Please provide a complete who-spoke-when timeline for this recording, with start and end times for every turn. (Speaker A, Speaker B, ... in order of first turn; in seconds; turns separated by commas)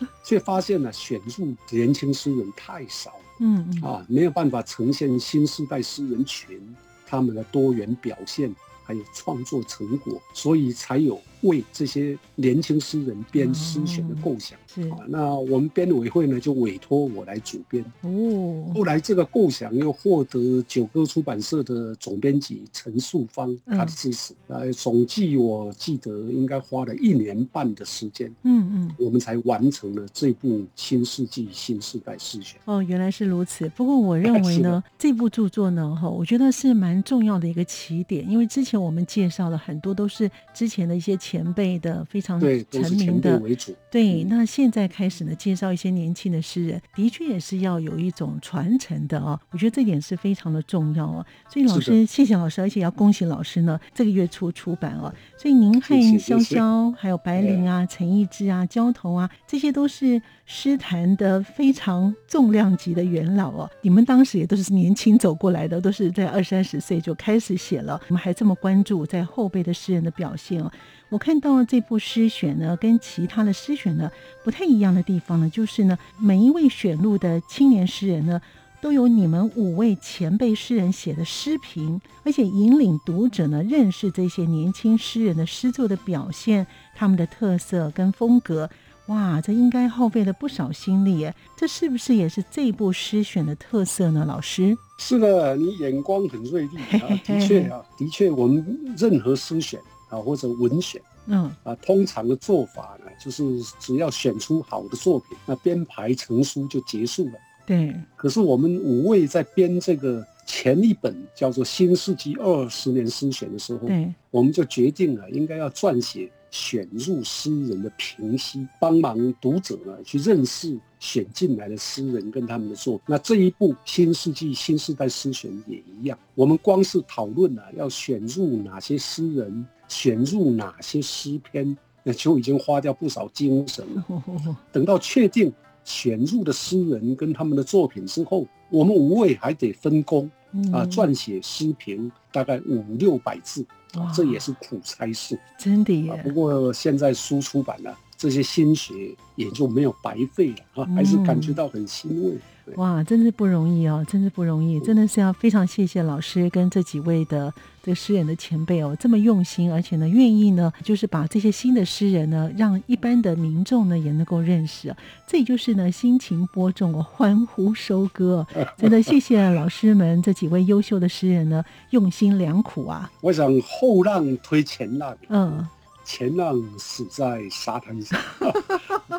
Speaker A: 0.2-3.3, Speaker B: 3.4-3.9, Speaker A: 3.8-17.9, Speaker B: 13.4-15.0, Speaker B: 18.0-18.8, Speaker A: 18.7-28.4, Speaker B: 23.7-24.0, Speaker B: 28.4-29.0, Speaker A: 29.0-32.6, Speaker B: 32.7-94.8, Speaker A: 34.2-34.8, Speaker A: 42.4-44.3, Speaker A: 51.7-52.0, Speaker A: 55.8-56.6, Speaker A: 57.4-57.7, Speaker A: 95.0-101.0, Speaker B: 96.8-97.7, Speaker B: 101.3-101.6, Speaker A: 101.6-107.4, Speaker B: 107.7-108.1, Speaker A: 108.2-134.1, Speaker B: 113.9-114.2, Speaker B: 133.9-134.6, Speaker A: 134.7-145.4, Speaker B: 140.5-141.1, Speaker B: 143.9-144.4, Speaker B: 145.6-146.3, Speaker A: 146.1-152.8, Speaker B: 150.9-151.6, Speaker B: 152.7-173.1, Speaker A: 168.6-169.1, Speaker A: 173.2-178.8, Speaker B: 175.3-175.7